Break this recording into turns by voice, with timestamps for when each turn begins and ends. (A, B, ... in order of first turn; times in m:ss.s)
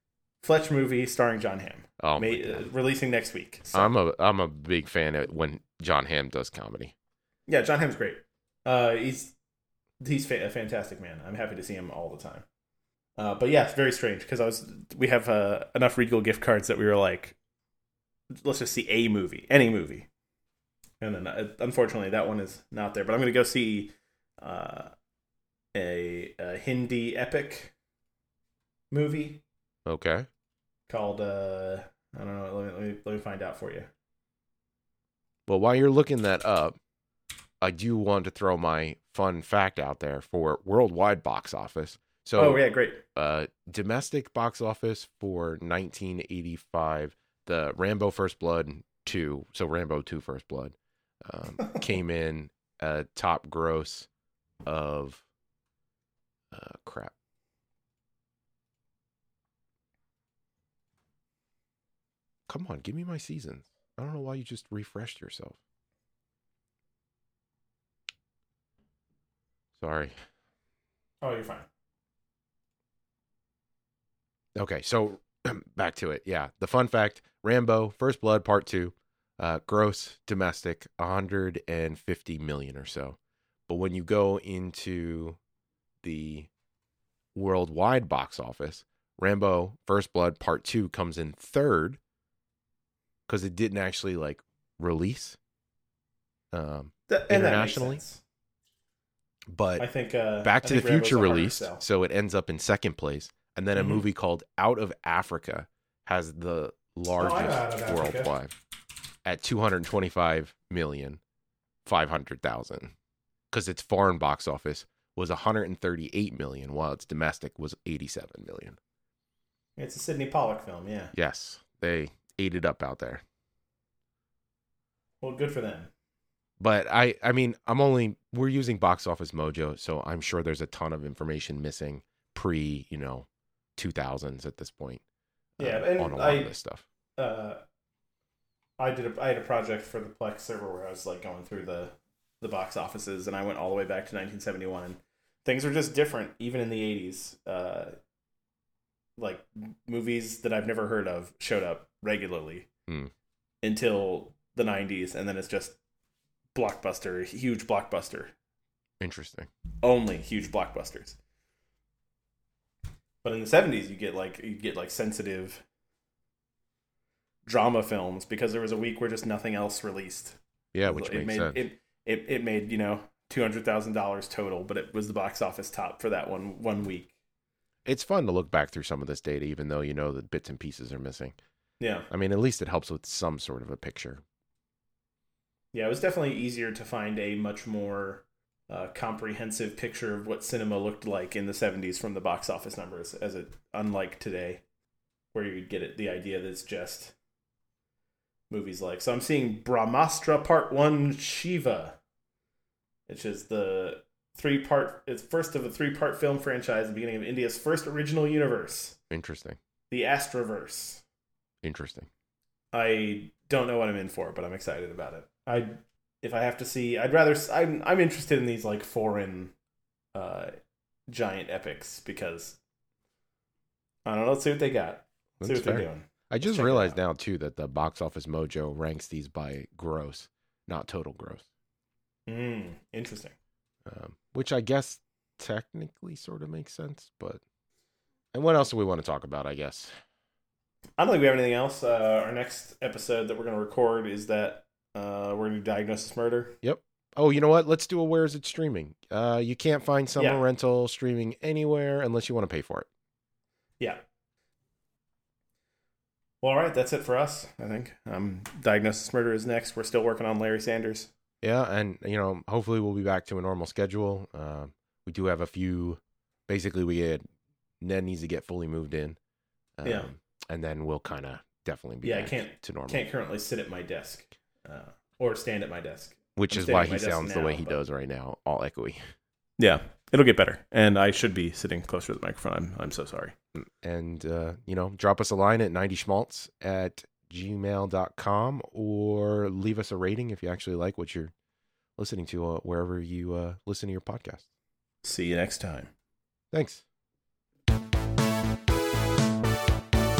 0:00.4-0:03.9 A
0:02.0-0:02.6 B
0:03.7-0:06.9 B
0:07.5-0:09.3 A
0:10.0-0:12.4 A
0:13.2-0:17.4 A
0:18.4-0:20.1 A
0:21.0-0:24.9 A
0:25.7-0:27.7 A
0:28.9-0:29.4 A
0:29.8-0:30.3 B
0:30.9-0:33.9 A
0:35.5-0:36.8 B
0:37.6-0:54.1 B
0:42.4-0:43.0 A
0:54.6-0:55.2 B
0:56.5-0:57.1 B
1:02.5-1:05.6 B
1:09.8-1:10.1 B
1:11.2-1:11.6 A
1:14.5-1:25.4 B
1:26.0-1:26.5 B
1:27.3-1:32.0 B
1:33.3-1:35.4 B
1:36.5-1:38.0 B
1:37.1-1:38.2 A
1:39.5-1:39.9 B
1:39.8-1:41.8 A
1:40.4-1:48.5 B
1:43.8-1:44.0 A
1:47.2-1:48.3 A
1:49.2-1:51.2 B
1:51.8-1:52.9 B
1:53.5-1:58.8 B
1:59.8-2:01.1 A
2:01.1-2:03.2 B
2:05.2-2:05.9 A
2:06.6-2:15.0 B
2:15.6-2:16.8 B
2:15.6-2:16.5 A
2:17.2-2:17.6 A
2:18.8-2:28.0 A
2:29.2-2:32.7 A
2:32.9-2:33.1 B
2:33.6-2:35.8 A
2:36.5-2:38.3 A
2:39.0-2:39.5 B
2:39.8-2:41.2 A
2:43.2-2:45.6 A
2:47.4-2:57.1 A
2:50.7-2:51.6 B
2:57.8-3:01.4 B
3:01.8-3:02.1 A
3:02.1-3:04.2 B
3:05.7-3:14.6 A
3:15.3-3:17.1 A
3:18.5-3:22.0 A
3:23.1-3:29.0 A
3:29.1-3:29.6 B
3:29.9-3:31.0 A
3:31.6-3:32.1 B
3:32.7-3:39.5 A
3:40.1-3:40.5 A
3:41.1-3:42.6 A
3:44.0-3:47.0 A
3:45.4-3:51.4 B
3:52.3-3:53.3 A
3:53.8-3:57.4 B
3:58.3-3:59.9 B
4:01.0-4:06.6 A
4:06.6-4:12.9 B
4:10.2-4:10.4 A
4:16.4-4:21.1 A
4:21.4-4:27.2 B
4:27.8-4:29.2 B
4:29.8-4:33.0 B
4:32.0-4:37.8 A
4:36.4-4:39.0 B
4:39.6-4:43.3 A
4:43.5-4:51.3 B
4:52.0-4:54.4 B
4:55.0-4:55.9 A
4:56.5-4:56.8 B